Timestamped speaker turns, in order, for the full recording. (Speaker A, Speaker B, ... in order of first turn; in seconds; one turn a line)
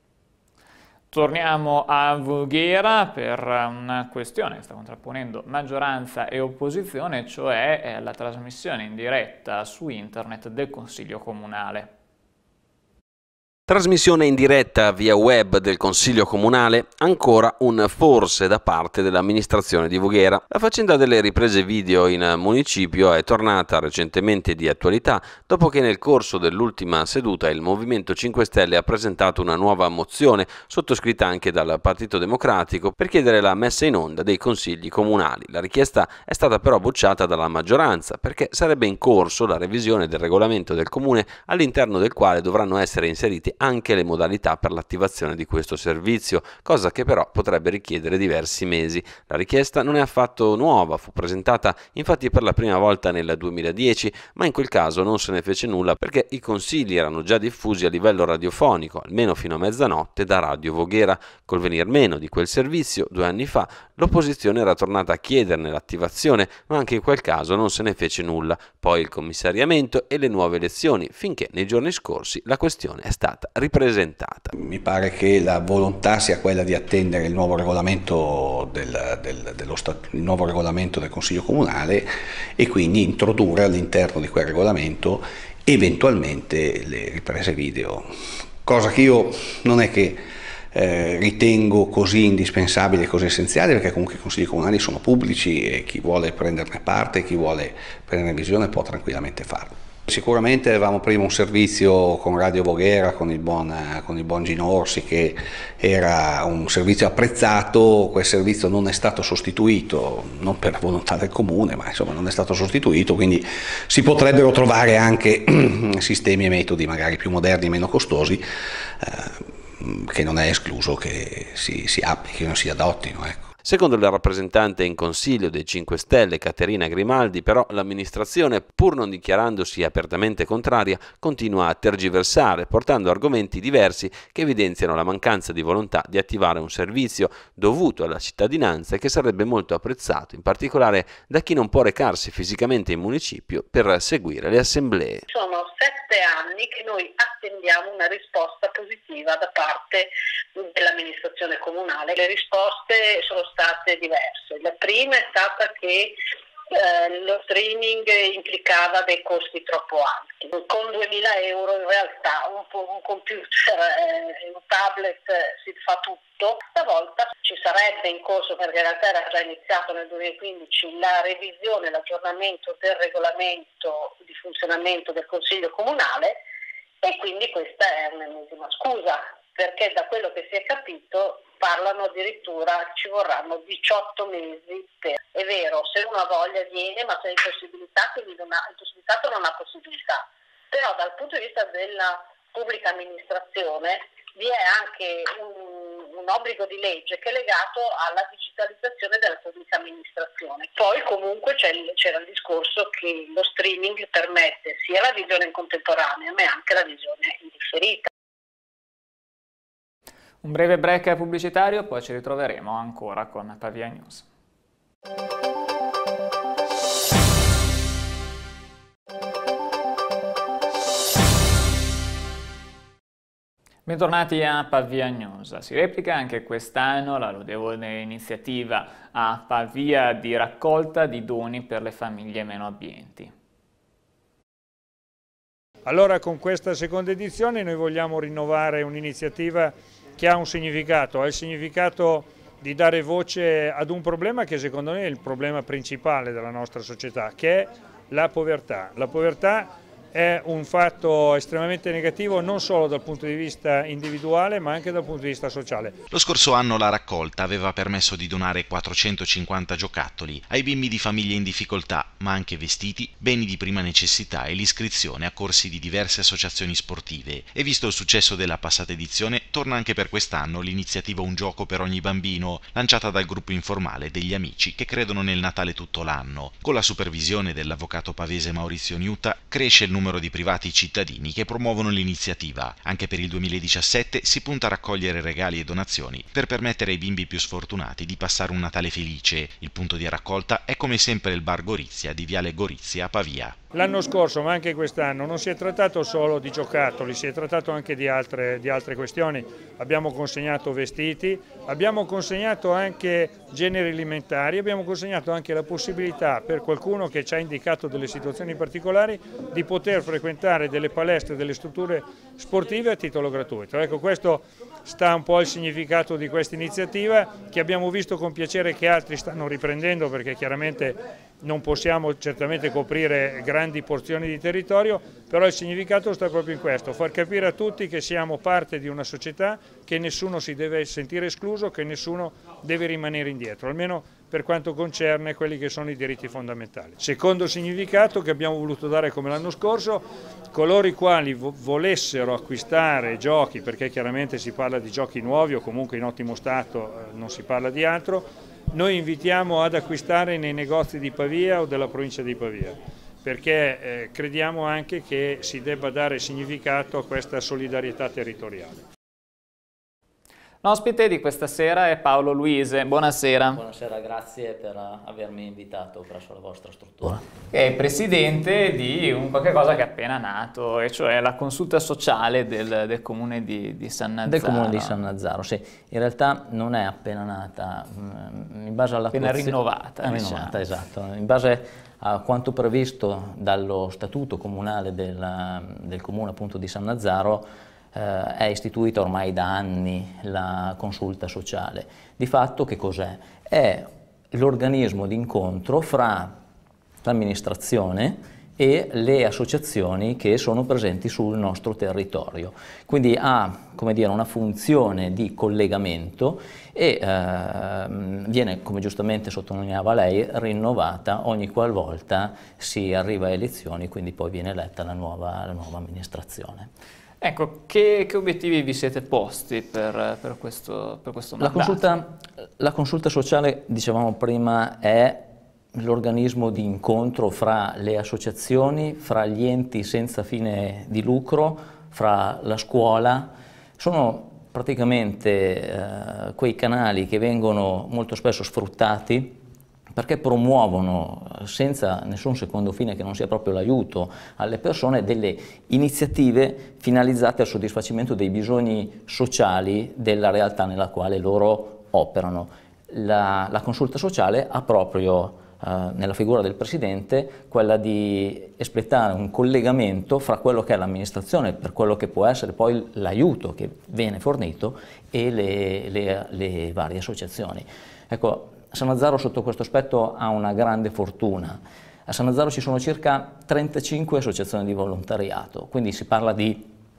Speaker A: 1.1-11.9
Speaker B: 13.7-74.5
Speaker C: 74.5-88.1
Speaker C: 88.6-118.4
Speaker C: 119.0-123.5
Speaker B: 123.6-145.2
Speaker D: 145.3-156.2
Speaker D: 156.7-176.4
Speaker D: 177.0-208.1
Speaker A: 210.4-214.2
Speaker A: 223.8-233.3
Speaker E: 235.8-256.0
Speaker F: 256.1-293.6
Speaker E: 293.7-358.8
Speaker A: 360.6-363.6
Speaker G: 363.5-367.2
Speaker A: 367.5-374.9
Speaker G: 374.2-396.4
Speaker A: 379.1-380.6
Speaker G: 397.0-416.7
Speaker A: 417.2-421.9
Speaker G: 421.4-425.2
Speaker G: 425.7-439.4
Speaker G: 439.9-476.7